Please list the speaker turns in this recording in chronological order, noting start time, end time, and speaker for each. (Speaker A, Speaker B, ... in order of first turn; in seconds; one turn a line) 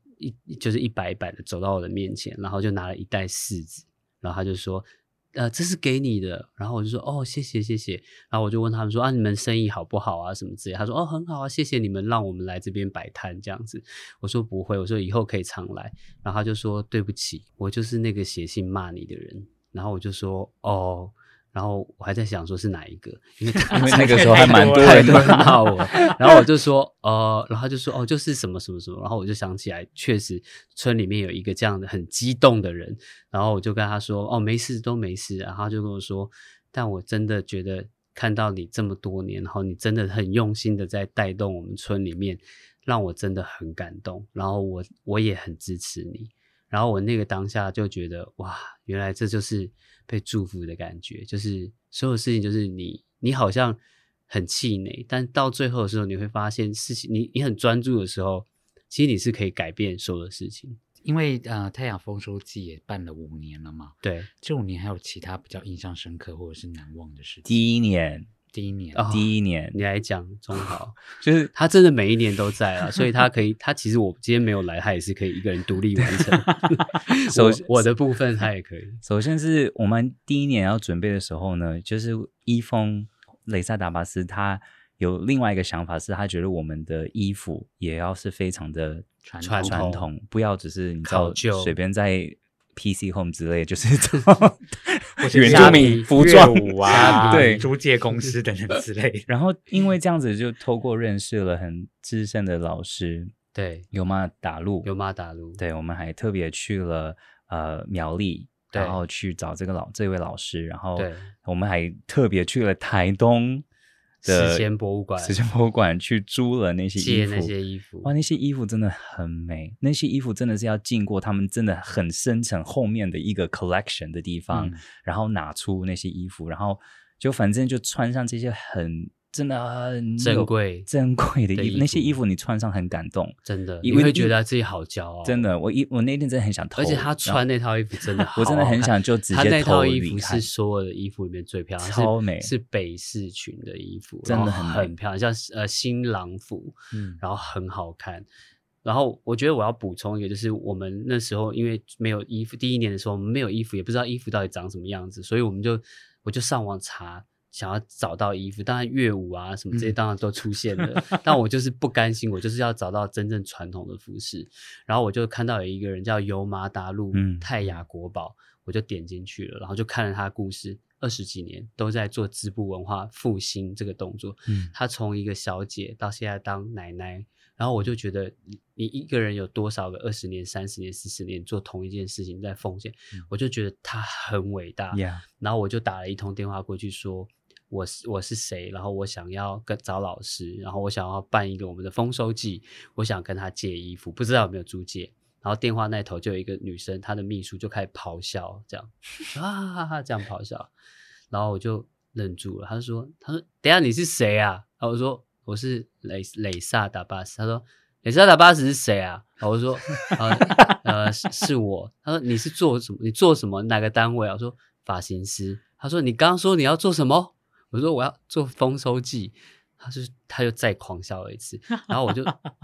Speaker A: 0.2-60.8
Speaker B: 23.7-26.1
Speaker C: 23.7-25.7
Speaker B: 61.0-67.5
Speaker A: 64.0-64.3
Speaker C: 67.5-68.3
Speaker B: 68.5-69.0
Speaker A: 68.9-71.0
Speaker C: 69.1-69.8
Speaker C: 71.2-71.5
Speaker A: 71.5-79.0
Speaker C: 77.3-77.8
Speaker C: 79.0-97.7
Speaker B: 89.2-89.9
Speaker A: 89.4-90.1
Speaker A: 91.0-91.8
Speaker B: 95.2-99.3
Speaker A: 95.5-96.1
Speaker A: 96.9-97.6
Speaker C: 99.3-103.3
Speaker A: 103.5-103.9
Speaker C: 103.9-104.9
Speaker A: 104.8-105.6
Speaker C: 105.6-113.6
Speaker A: 108.7-109.0
Speaker A: 111.0-111.3
Speaker A: 114.2-115.4
Speaker C: 114.2-114.6
Speaker C: 115.2-117.5
Speaker A: 117.0-118.1
Speaker C: 118.0-134.3
Speaker A: 130.2-130.9
Speaker A: 131.5-132.2
Speaker A: 133.4-135.4
Speaker C: 135.2-137.4
Speaker A: 136.7-148.2
Speaker C: 138.3-140.5
Speaker C: 141.8-142.5
Speaker C: 144.2-144.9
Speaker B: 146.9-147.2
Speaker A: 148.8-200.7
Speaker C: 167.1-167.5
Speaker C: 184.9-185.2
Speaker A: 201.3-222.3